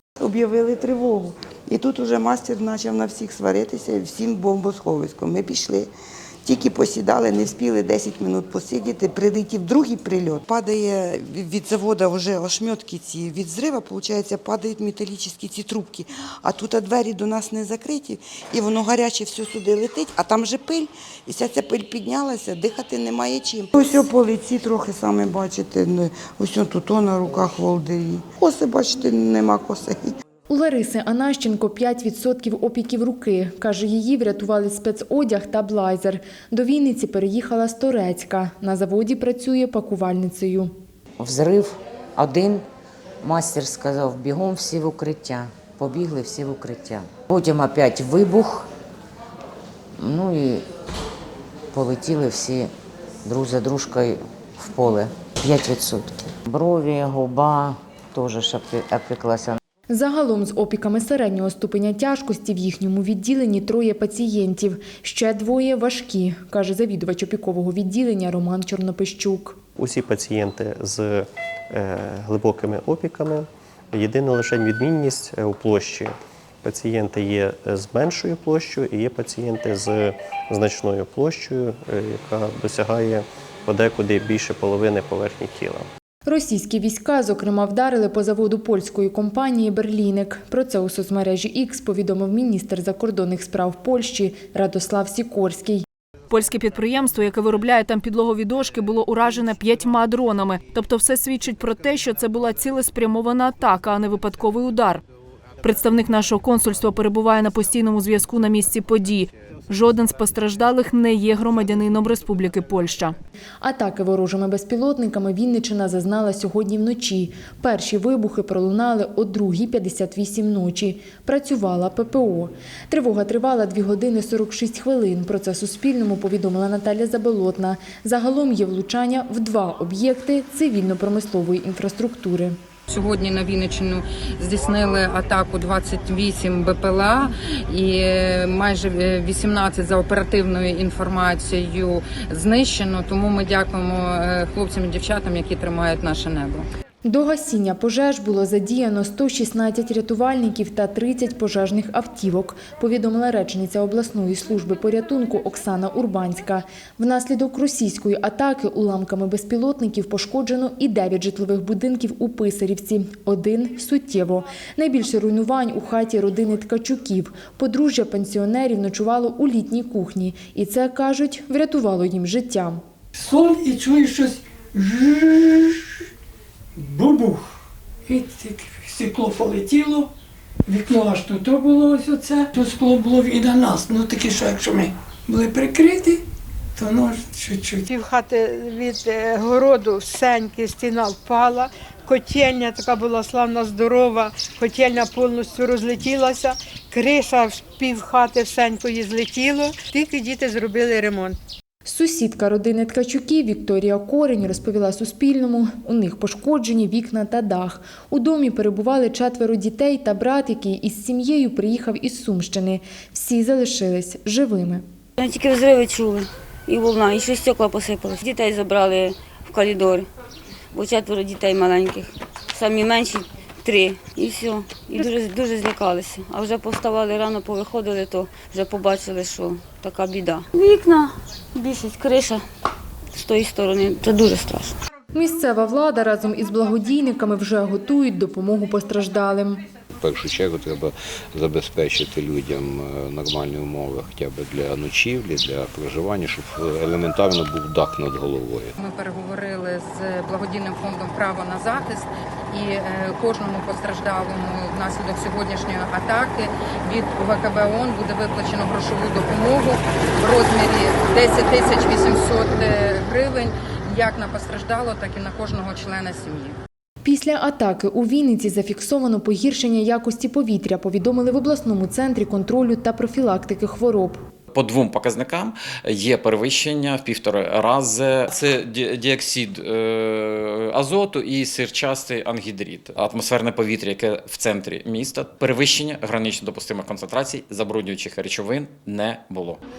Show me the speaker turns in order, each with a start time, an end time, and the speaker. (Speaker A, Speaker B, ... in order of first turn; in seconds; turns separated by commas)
Speaker A: 0.2-5.9, Speaker A: 6.5-30.1, Speaker B: 30.5-40.7, Speaker C: 41.2-42.6, Speaker C: 43.2-48.7, Speaker C: 50.0-50.6, Speaker C: 51.7-52.7, Speaker C: 53.2-59.6, Speaker B: 59.9-69.6, Speaker D: 69.8-85.9, Speaker B: 86.2-95.9, Speaker E: 96.3-105.0, Speaker E: 105.6-113.2, Speaker B: 113.6-132.6, Speaker F: 132.9-146.7, Speaker B: 147.1-172.8, Speaker G: 173.2-175.8, Speaker G: 176.8-177.5, Speaker G: 178.1-180.1, Speaker G: 180.7-186.2, Speaker G: 186.8-187.9, Speaker H: 187.9-201.3, Speaker B: 201.8-214.8, Speaker I: 215.2-220.1, Speaker I: 220.7-232.4, Speaker I: 233.1-234.8, Speaker B: 235.1-239.6, Speaker J: 240.0-248.7, Speaker F: 248.8-266.6, Speaker B: 267.0-274.2, Speaker K: 274.5-289.6